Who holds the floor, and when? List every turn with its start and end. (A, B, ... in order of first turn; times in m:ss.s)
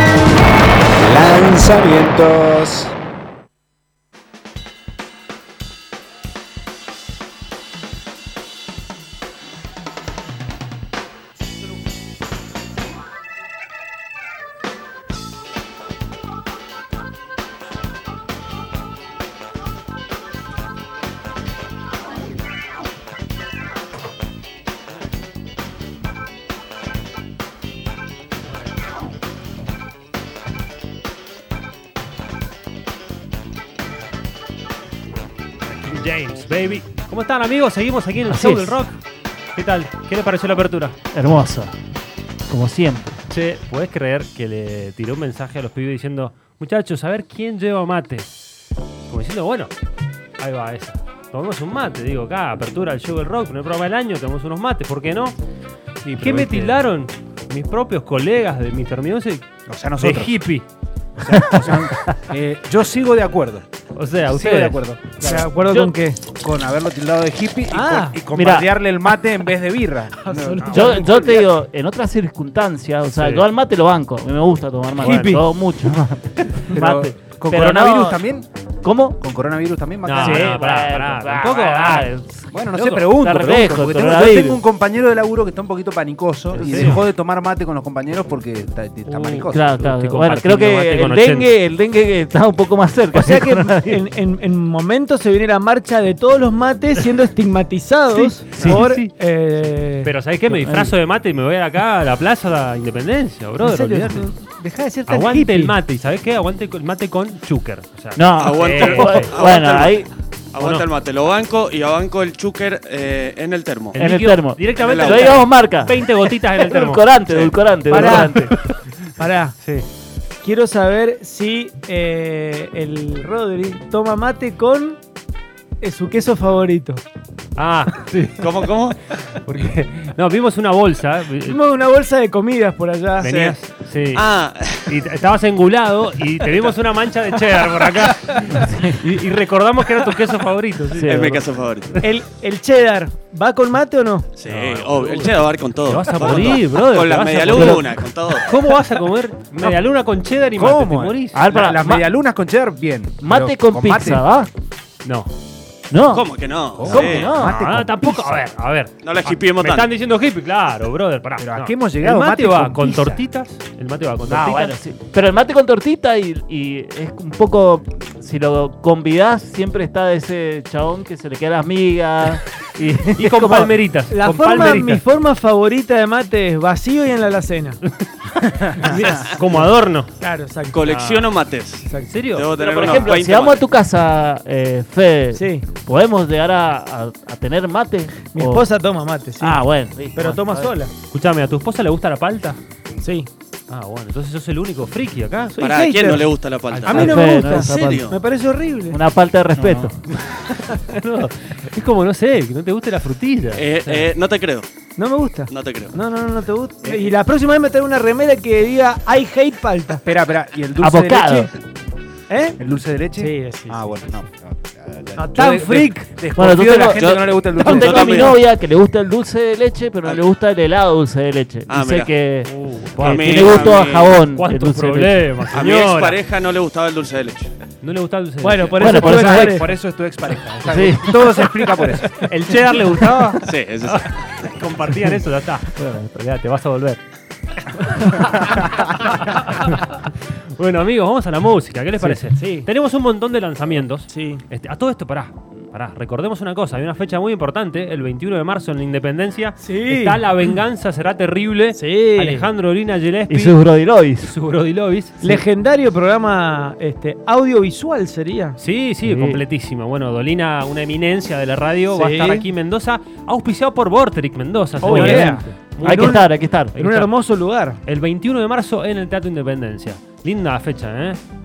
0:01.0-0:02.9 A
0:35.7-0:39.0 B
0:38.2-0:38.8 C
0:39.6-0:41.0 B
0:41.1-0:41.7 C
0:42.5-0:43.2 C
0:43.3-0:48.3 B
0:49.1-0:49.7 B
0:50.4-0:55.4 B
0:56.0-0:56.8 A
0:56.2-0:59.4 B
0:59.7-1:00.4 A
1:00.0-1:00.6 B
1:01.2-1:03.6 A
1:03.9-1:04.8 B
1:04.3-1:05.3 A
1:05.2-1:05.9 C
1:05.2-1:06.3 D
1:06.3-1:11.3 A
1:07.7-1:08.2 D
1:08.3-1:08.7 C
1:10.2-1:11.4 D
1:10.7-1:18.2 C
1:13.2-1:13.4 B
1:15.0-1:15.4 B
1:15.0-1:15.4 D
1:16.7-1:18.5 A
1:18.8-1:19.2 C
1:19.2-1:20.7 A
1:20.0-1:22.1 B
1:20.2-1:22.6 C
1:22.5-1:29.7 A
1:22.7-1:23.1 B
1:23.1-1:24.6 C
1:26.5-1:27.0 B
1:26.7-1:27.0 C
1:29.0-1:31.5 B
1:29.5-1:34.0 C
1:33.1-1:40.1 D
1:38.5-1:39.1 B
1:40.0-1:44.3 B
1:40.4-1:40.9 C
1:43.6-1:45.8 D
1:45.1-1:49.3 B
1:48.1-1:50.1 C
1:48.4-1:54.0 E
1:50.6-1:50.9 B
1:53.9-1:57.0 B
1:54.0-1:58.5 C
1:54.8-1:55.4 E
1:57.3-1:57.5 E
1:57.9-1:58.3 D
1:59.2-1:59.6 D
2:00.4-2:05.0 D
2:05.8-2:07.0 D
2:07.6-2:08.7 B
2:08.4-2:09.2 E
2:09.3-2:11.6 B
2:11.5-2:13.3 D
2:13.2-2:14.3 B
2:13.2-2:15.1 E
2:14.9-2:21.2 B
2:17.7-2:18.1 E
2:18.6-2:19.0 C
2:20.9-2:21.4 C
2:21.0-2:22.0 E
2:22.0-2:24.3 D
2:24.4-2:28.6 E
2:24.5-2:31.4 B
2:27.5-2:27.9 C
2:30.6-2:34.2 A
2:31.3-2:32.1 C
2:33.2-2:34.5 C
2:35.0-2:35.3 B
2:35.9-2:37.6 C
2:36.1-2:37.3 E
2:36.8-2:38.4 A
2:37.3-2:44.8 B
2:39.0-2:39.9 E
2:41.4-2:43.2 A
2:44.3-2:53.7 C
2:53.2-2:55.0 B
2:54.1-2:57.8 D
2:58.5-2:58.9 A
2:58.7-3:00.1 B
2:59.0-2:59.3 E
3:00.2-3:00.9 D
3:00.7-3:03.6 E
3:00.9-3:01.3 B
3:01.9-3:02.2 D
3:02.1-3:03.1 B
3:02.6-3:08.6 C
3:05.3-3:05.7 D
3:08.3-3:09.6 D
3:09.4-3:10.7 C
3:10.2-3:10.9 D
3:11.1-3:12.6 B
3:13.0-3:13.3 D
3:13.7-3:15.6 B
3:15.6-3:16.3 D
3:15.6-3:18.2 E
3:16.7-3:17.4 B
3:16.8-3:19.0 D
3:16.9-3:18.1 C
3:18.9-3:20.0 C
3:19.6-3:20.4 A
3:20.9-3:24.1 B
3:23.6-3:24.7 E
3:25.0-3:30.0 D
3:25.5-3:26.0 E
3:26.8-3:27.1 A
3:30.0-3:31.6 A
3:30.8-3:31.5 C
3:32.3-3:32.6 D
3:32.6-3:38.3 A
3:33.2-3:34.0 D
3:35.2-3:36.0 D
3:36.3-3:45.3 C
3:36.9-3:38.4 E
3:41.7-3:42.1 E
3:42.4-3:46.2 B
3:43.0-3:44.2 E
3:45.5-3:47.5 E
3:47.8-3:49.0 B
3:48.4-3:49.7 D
3:48.8-3:49.6 C
3:48.9-3:52.2 A
3:50.6-3:51.6 C
3:52.1-3:57.0 B
3:53.4-3:54.1 E
3:57.9-4:13.6 B
4:02.4-4:02.7 D
4:04.1-4:04.4 D
4:09.6-4:10.3 D
4:11.7-4:12.5 D
4:13.3-4:14.3 C
4:14.2-4:15.2 B
4:15.2-4:18.6 D
4:18.6-4:27.1 B
4:19.0-4:19.4 C
4:21.9-4:22.4 D
4:24.8-4:26.3 D
4:24.9-4:26.8 C
4:25.0-4:25.4 A
4:26.8-4:27.8 D
4:27.8-4:31.2 B